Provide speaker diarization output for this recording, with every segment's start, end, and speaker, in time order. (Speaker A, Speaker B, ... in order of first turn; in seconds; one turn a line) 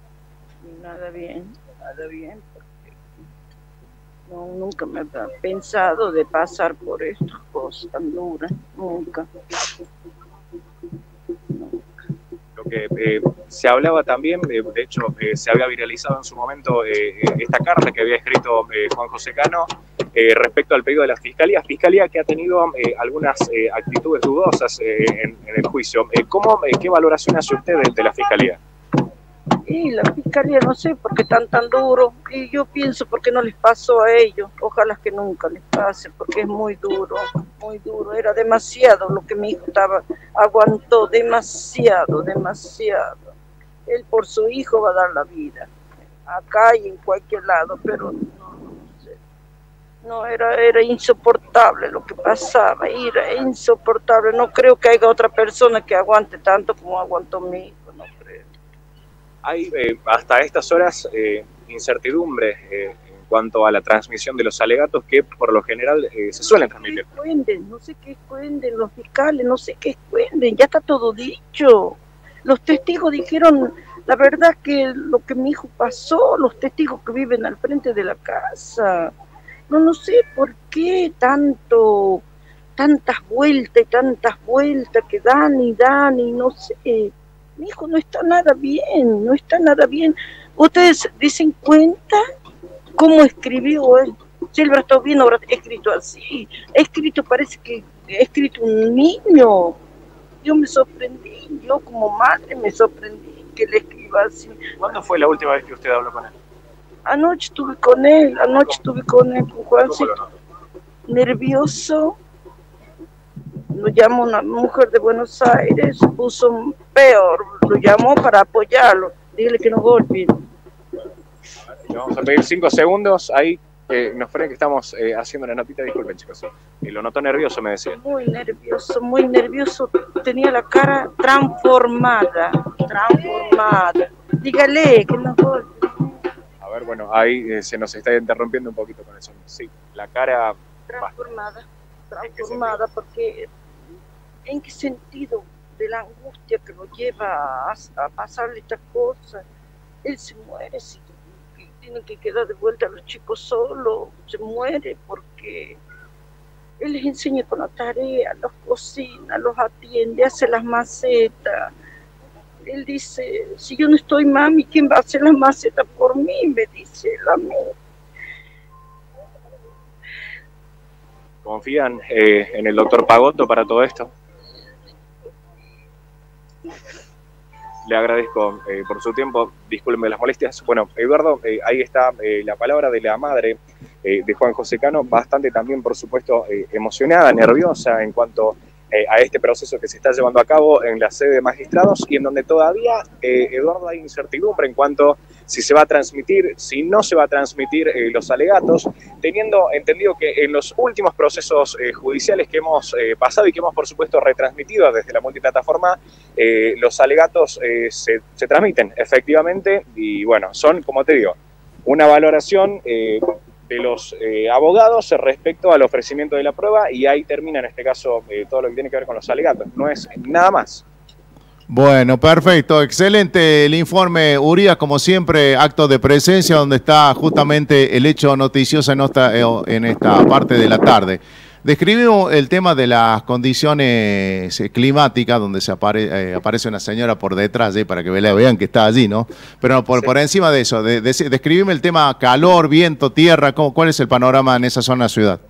Speaker A: 0.6-2.9
Speaker A: 4.3-9.3
Speaker A: 11.5-11.8
Speaker B: 12.6-28.6
Speaker A: 29.6-43.3
Speaker A: 43.9-45.7
Speaker A: 46.2-49.2
Speaker A: 50.0-58.5
Speaker B: 59.4-67.0
Speaker A: 66.4-79.1
Speaker A: 79.7-82.2
Speaker A: 82.8-92.2
Speaker A: 93.0-99.8
Speaker A: 100.4-104.6
Speaker B: 104.8-106.3
Speaker A: 107.0-110.1
Speaker B: 109.8-110.3
Speaker A: 111.1-112.2
Speaker A: 113.7-120.3
Speaker B: 121.9-128.0
Speaker A: 127.9-136.2
Speaker B: 136.6-141.1
Speaker A: 140.9-143.5
Speaker B: 142.2-142.8
Speaker A: 144.4-149.4
Speaker A: 150.0-155.8
Speaker A: 156.8-161.7
Speaker A: 162.7-167.7
Speaker B: 171.4-174.1
Speaker B: 177.9-220.8
Speaker C: 221.7-245.4